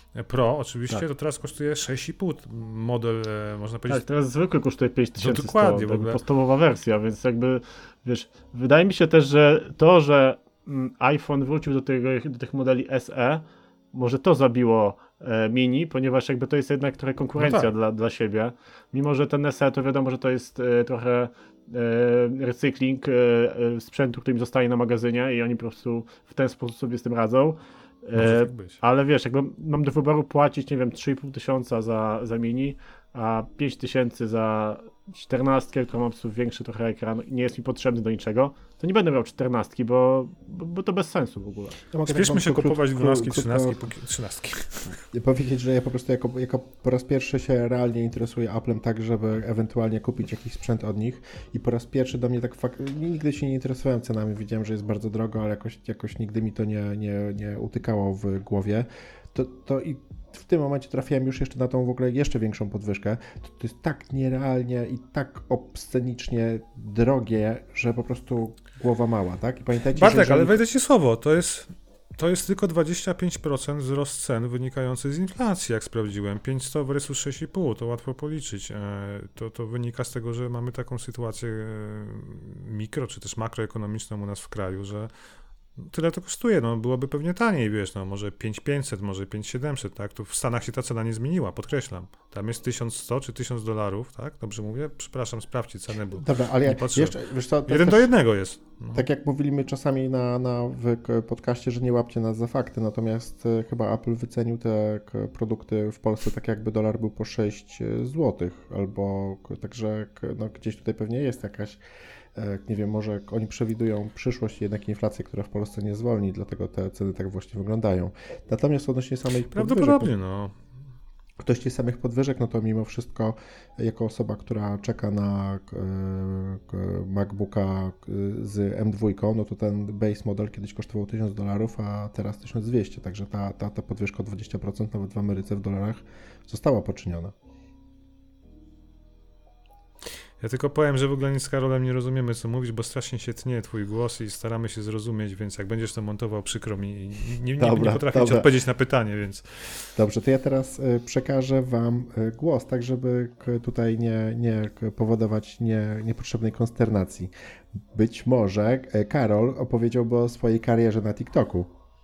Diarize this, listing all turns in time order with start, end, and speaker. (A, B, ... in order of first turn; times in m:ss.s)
0:00.1-0:04.0 A
0:03.9-0:41.8 B
0:05.2-0:06.2 A
0:17.4-0:17.7 A
0:28.2-0:28.8 A
0:41.9-0:43.8 C
0:42.1-0:45.0 A
0:45.1-1:10.6 C
1:09.9-1:25.1 A
1:25.8-1:39.0 A
1:36.2-1:38.1 C
1:38.9-1:51.8 C
1:52.4-2:00.1 C
1:59.5-2:00.5 A
2:01.4-2:17.3 C
2:20.4-2:29.7 A
2:27.6-2:28.5 C
2:30.0-2:37.3 C
2:37.9-2:41.7 C